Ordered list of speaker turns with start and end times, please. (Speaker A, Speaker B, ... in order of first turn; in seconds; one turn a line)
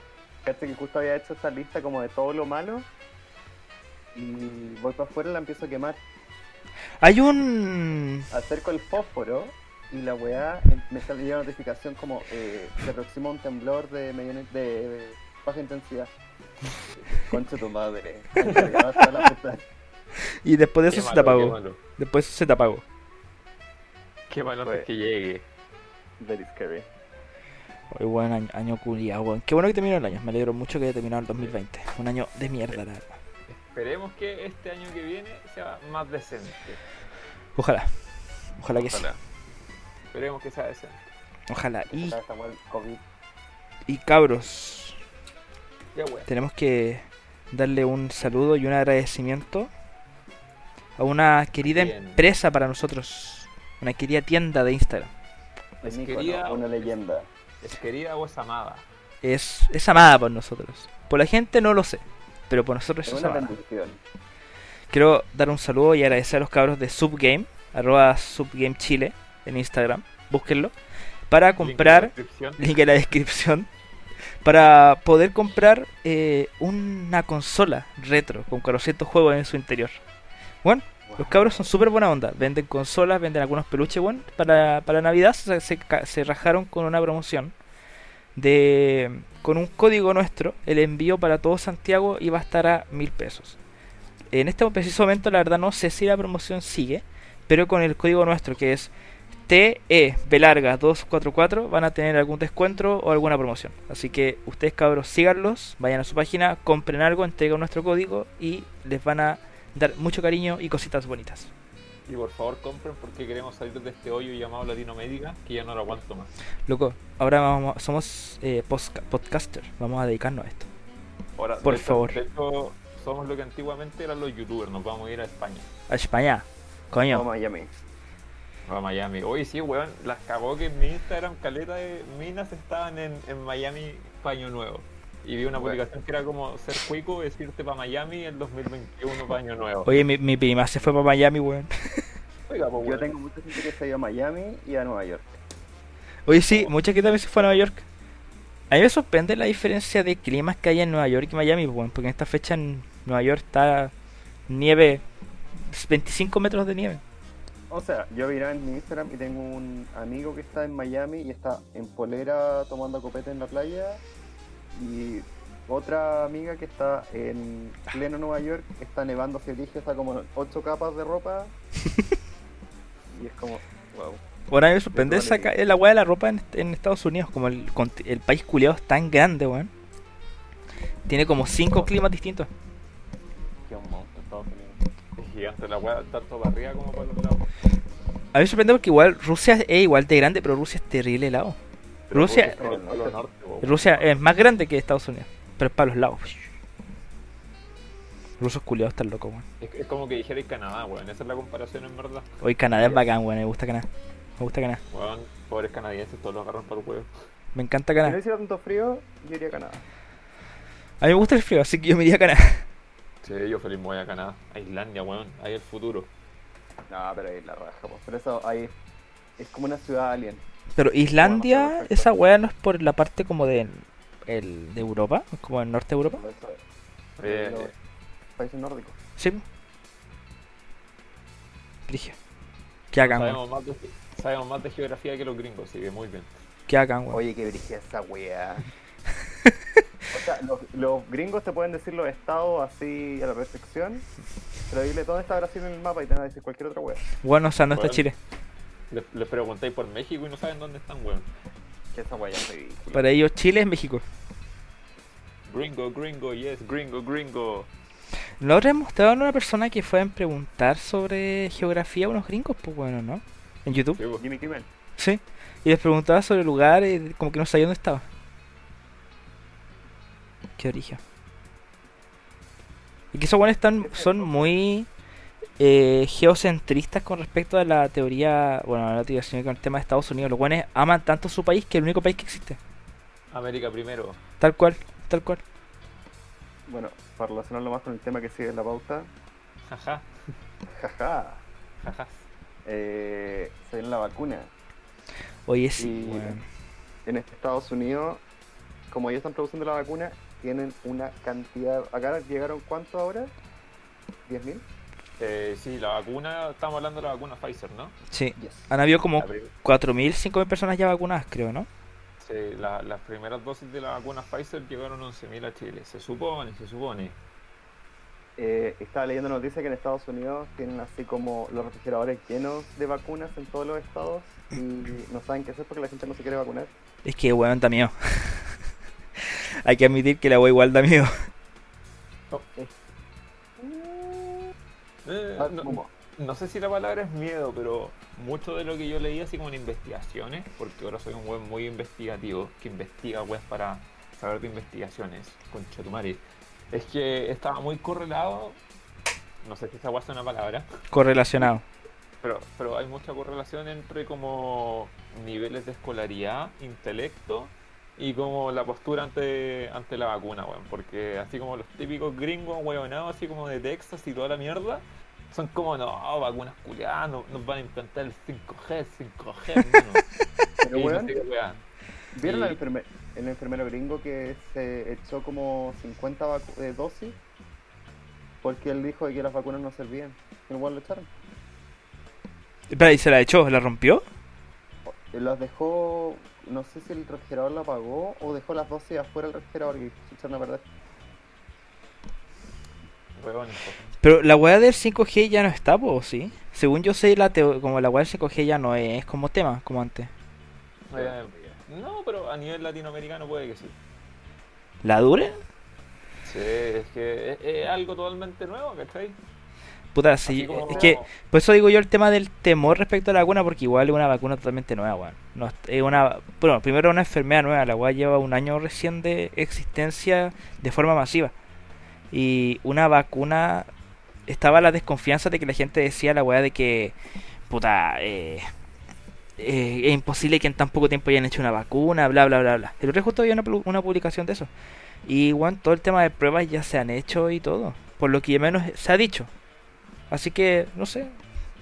Speaker A: 0.4-2.9
Speaker A: 4.2-6.0
Speaker B: 7.0-8.3
Speaker A: 8.3-16.1
Speaker A: 17.1-19.6
Speaker C: 18.4-18.7
Speaker B: 20.4-22.8
Speaker C: 20.9-21.8
Speaker C: 24.3-25.5
Speaker A: 26.2-26.9
Speaker B: 27.9-33.2
Speaker C: 33.5-36.8
Speaker B: 37.6-37.9
Speaker B: 38.6-39.1
Speaker C: 38.7-39.2
Speaker C: 40.1-41.1
Speaker B: 41.5-42.2
Speaker A: 41.9-43.0
Speaker B: 43.9-45.0
Speaker C: 45.9-46.3
Speaker B: 46.3-49.7
Speaker B: 51.0-55.1
Speaker C: 51.6-52.3
Speaker A: 55.8-57.3
Speaker C: 55.9-57.0
Speaker C: 57.6-58.9
Speaker B: 59.2-63.5
Speaker A: 63.1-64.0
Speaker B: 64.9-70.7
Speaker B: 71.3-73.7
Speaker C: 71.6-72.8
Speaker B: 74.4-80.0
Speaker B: 80.6-87.5
Speaker A: 81.1-81.7
Speaker B: 88.4-93.6
Speaker B: 94.3-98.9
Speaker B: 99.5-111.5
Speaker C: 112.1-116.3
Speaker B: 116.7-120.7
Speaker C: 121.4-125.7
Speaker B: 121.6-122.2
Speaker B: 125.9-127.2
Speaker A: 127.1-127.7
Speaker C: 128.7-140.0
Speaker A: 135.6-135.8
Speaker B: 139.8-142.1
Speaker C: 142.5-143.1
Speaker A: 142.8-145.4
Speaker B: 146.3-147.8
Speaker B: 148.7-153.9
Speaker B: 154.5-155.0
Speaker B: 155.6-157.0
Speaker A: 157.7-164.0
Speaker A: 164.8-171.5
Speaker A: 173.1-174.2
Speaker B: 174.5-179.7
Speaker A: 174.9-175.5
Speaker B: 181.1-182.5
Speaker A: 183.7-184.8
Speaker C: 185.2-187.5
Speaker B: 188.3-191.6
Speaker C: 192.1-194.1
Speaker B: 192.1-192.6
Speaker A: 192.2-193.2
Speaker B: 193.6-196.5
Speaker B: 198.4-199.4
Speaker C: 199.6-203.0
Speaker B: 202.4-203.9
Speaker B: 204.4-204.8
Speaker C: 204.9-207.1
Speaker B: 207.5-208.2
Speaker A: 208.0-209.8
Speaker B: 211.0-212.7
Speaker C: 213.2-216.1
Speaker A: 216.9-218.7
Speaker A: 219.4-220.4
Speaker B: 220.8-226.2
Speaker A: 221.2-222.2
Speaker A: 226.1-226.6
Speaker C: 227.2-227.7
Speaker A: 227.2-227.7
Speaker A: 228.4-229.0
Speaker B: 229.2-229.4
Speaker B: 231.9-232.2
Speaker B: 232.9-233.4
Speaker C: 233.0-236.3
Speaker B: 236.7-237.2
Speaker A: 237.1-238.6
Speaker A: 240.1-244.1
Speaker A: 244.7-247.0
Speaker B: 247.2-248.2
Speaker C: 247.8-248.1
Speaker C: 248.9-251.3
Speaker A: 251.9-253.1
Speaker B: 252.9-254.0
Speaker C: 255.5-257.7
Speaker B: 258.4-264.0
Speaker C: 263.9-264.2
Speaker A: 264.2-264.7
Speaker B: 265.0-268.0
Speaker B: 270.6-271.0
Speaker B: 273.1-274.9
Speaker A: 273.8-274.5
Speaker B: 275.6-282.6
Speaker C: 283.3-284.2
Speaker B: 284.4-285.4
Speaker A: 286.7-289.1
Speaker C: 289.7-290.1
Speaker A: 290.8-291.4
Speaker C: 291.8-292.3
Speaker A: 292.6-294.5
Speaker B: 295.5-296.4
Speaker A: 295.8-296.4
Speaker A: 297.1-298.2
Speaker A: 298.9-303.3
Speaker A: 304.3-304.6
Speaker C: 305.2-307.9
Speaker B: 308.1-311.7
Speaker A: 308.4-308.7
Speaker C: 309.2-309.5
Speaker C: 312.2-317.2
Speaker A: 318.4-326.7
Speaker B: 327.1-328.6
Speaker B: 329.2-331.1
Speaker A: 333.6-334.5
Speaker C: 335.1-348.6
Speaker A: 335.4-335.9
Speaker C: 349.4-350.7
Speaker B: 350.9-351.6
Speaker C: 352.2-370.1
Speaker A: 370.6-371.2
Speaker C: 370.7-371.6
Speaker A: 372.1-377.2
Speaker C: 372.2-372.6
Speaker A: 378.4-381.1
Speaker B: 382.7-384.1
Speaker A: 384.9-390.7
Speaker C: 393.2-393.8
Speaker B: 394.0-400.1
Speaker C: 400.9-403.8
Speaker A: 400.9-401.6
Speaker B: 404.8-405.4
Speaker C: 406.2-409.2
Speaker B: 409.9-421.3
Speaker C: 410.3-411.1
Speaker A: 410.6-411.0
Speaker B: 422.1-423.7
Speaker B: 424.3-427.0
Speaker B: 427.5-428.4
Speaker B: 429.4-434.5
Speaker B: 435.1-439.3
Speaker B: 440.1-441.2